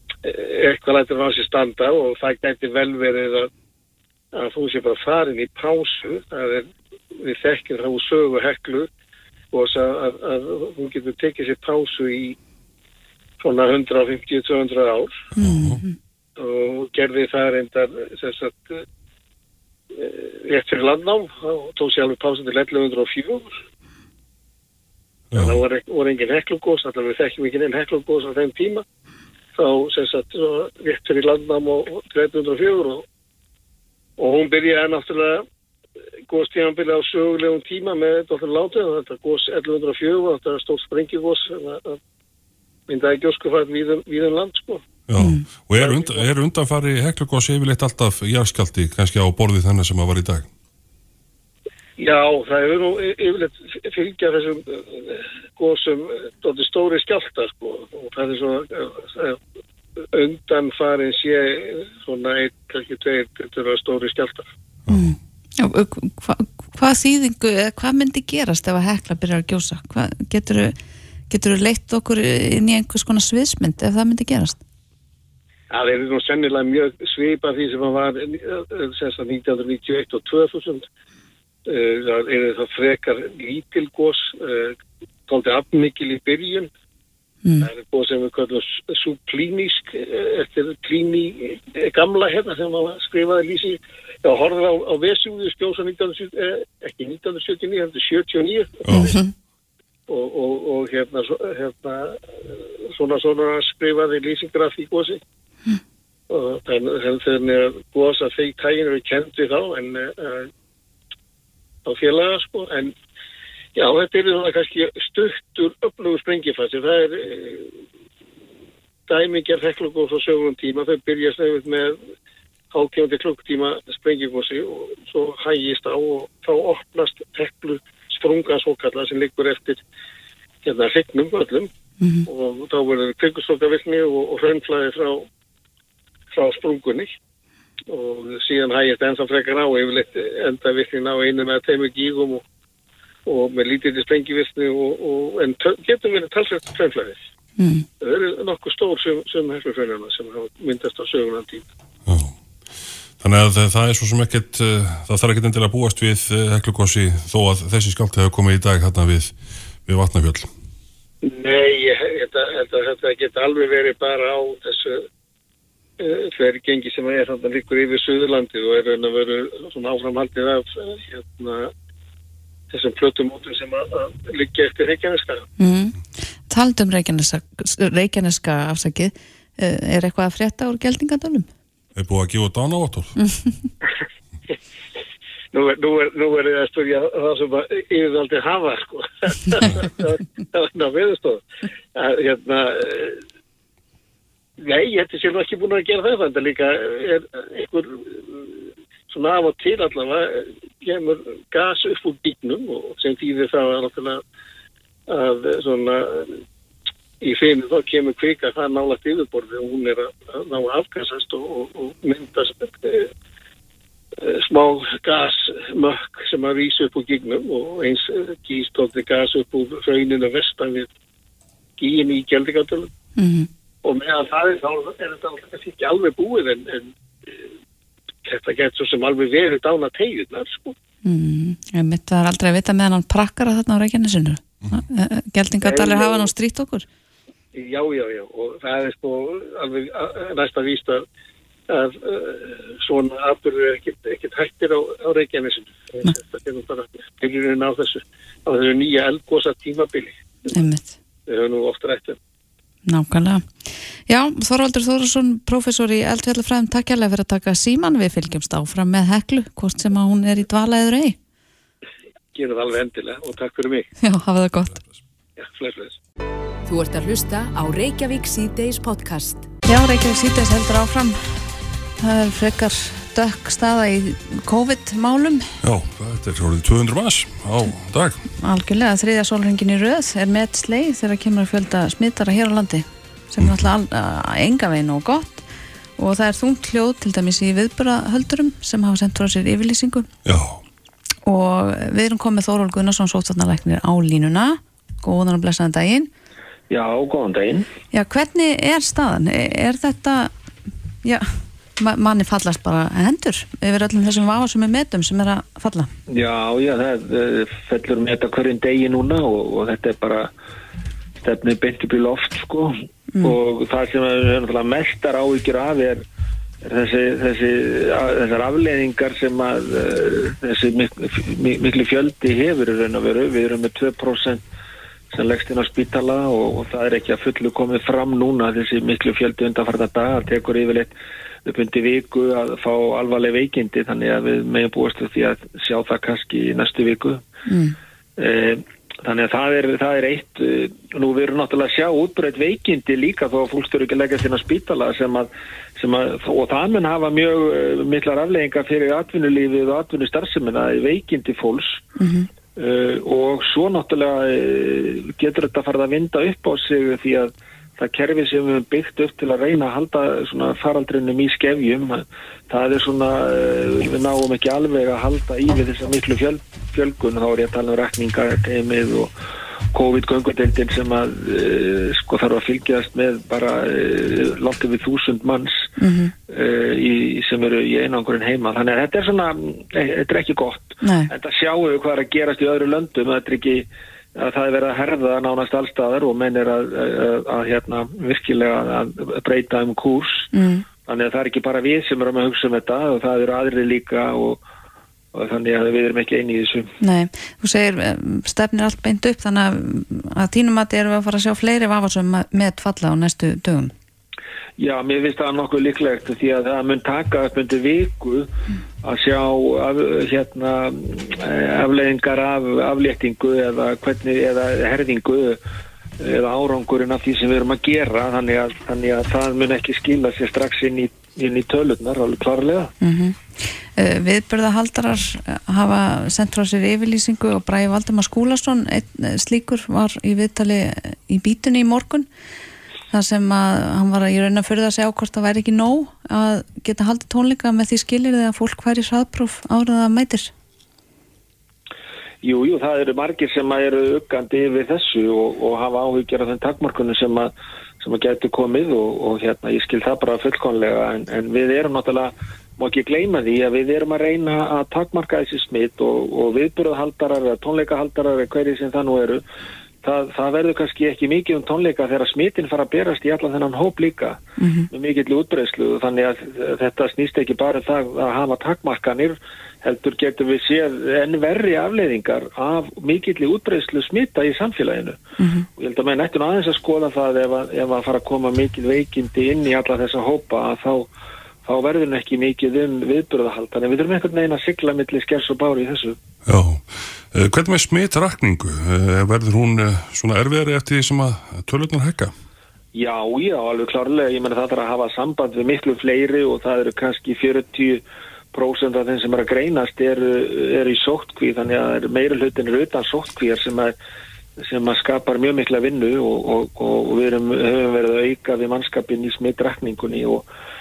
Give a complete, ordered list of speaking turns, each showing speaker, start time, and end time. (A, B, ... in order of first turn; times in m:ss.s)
0:00.2-0:03.5 A
0:04.3-0:08.9 A
0:09.5-0:12.4 A
0:13.4-0:15.2 A
0:15.4-0:15.8 B
0:15.4-0:15.9 C
0:16.4-0:18.8 A
0:19.9-0:23.5 A
0:25.3-0:25.6 B
0:25.3-0:28.8 A
0:29.5-0:33.0 A
0:34.2-0:35.4 A
0:36.3-0:42.0 A
0:42.9-0:44.8 A
0:45.1-0:50.5 B
0:45.2-0:45.4 C
0:45.8-0:46.2 A
0:52.0-0:59.4 A
1:00.1-1:04.5 A
1:04.9-1:05.2 B
1:04.9-1:10.8 C
1:11.3-1:14.6 C
1:15.7-1:20.8 A
1:21.7-1:24.8 A
1:25.3-1:26.7 A
1:27.6-1:39.1 A
1:38.8-1:39.2 B
1:40.1-1:45.2 A
1:46.3-1:50.5 A
1:51.8-1:52.9 A
1:53.7-1:57.8 A
1:59.1-2:02.0 A
2:02.7-2:09.8 A
2:10.6-2:11.7 A
2:12.0-2:12.3 C
2:12.3-2:15.3 A
2:16.3-2:17.1 A
2:17.9-2:22.4 A
2:23.3-2:27.2 A
2:27.6-2:27.8 C
2:28.0-2:31.6 A
2:32.1-2:32.3 B
2:33.2-2:39.3 B
2:39.8-2:40.5 B
2:41.2-2:45.0 A
2:46.0-2:51.7 A
2:52.7-2:55.4 A
2:55.6-2:56.0 C
2:56.5-3:01.5 C
3:02.0-3:03.1 B
3:03.2-3:03.6 C
3:05.5-3:11.4 A
3:11.9-3:13.2 A
3:14.6-3:24.2 A
3:25.1-3:26.4 A
3:27.2-3:33.1 A
3:34.2-3:40.9 A
3:41.8-3:42.9 A
3:43.2-3:43.5 C
3:43.8-3:46.9 A
3:48.2-3:50.7 A
3:51.0-3:56.8 C
3:55.6-3:56.3 A
3:57.5-4:01.0 A
4:01.7-4:10.2 A
4:10.5-4:10.9 C
4:11.3-4:12.2 A
4:12.8-4:21.2 C
4:22.3-4:23.9 A
4:24.0-4:24.8 C
4:25.4-4:26.0 A
4:26.6-4:29.5 D
4:29.6-4:31.4 C
4:32.0-4:35.5 C
4:35.6-4:38.2 B
4:38.4-4:45.4 C
4:43.4-4:43.7 B
4:46.0-4:50.1 C
4:50.2-4:50.6 B
4:51.2-4:56.1 C
4:56.7-4:57.7 E
4:57.9-5:00.3 C
5:01.0-5:05.9 C
5:06.1-5:10.3 E
5:11.2-5:16.0 E
5:16.6-5:24.4 E
5:25.1-5:30.9 E
5:31.4-5:37.2 E
5:37.5-5:37.8 C
5:38.2-5:51.8 E
5:52.0-5:52.3 C
5:52.6-6:09.1 E
6:09.7-6:15.7 E
6:15.8-6:16.1 C
6:16.3-6:30.3 E
6:20.8-6:21.1 C
6:30.3-6:30.6 C
6:30.8-6:34.4 E
6:35.1-6:36.7 E
6:36.8-6:43.7 C
6:44.6-6:48.3 E
6:48.8-6:55.4 E
6:56.0-7:02.7 E
7:02.8-7:12.1 C
7:12.9-7:20.3 C
7:22.2-7:39.2 E
7:39.8-7:55.0 E
7:44.4-7:44.7 C
7:55.2-7:55.5 C
7:55.6-8:00.9 E
8:01.4-8:06.0 E
8:06.2-8:12.1 B
8:12.7-8:17.8 E
8:18.3-8:23.8 E
8:24.4-8:30.2 E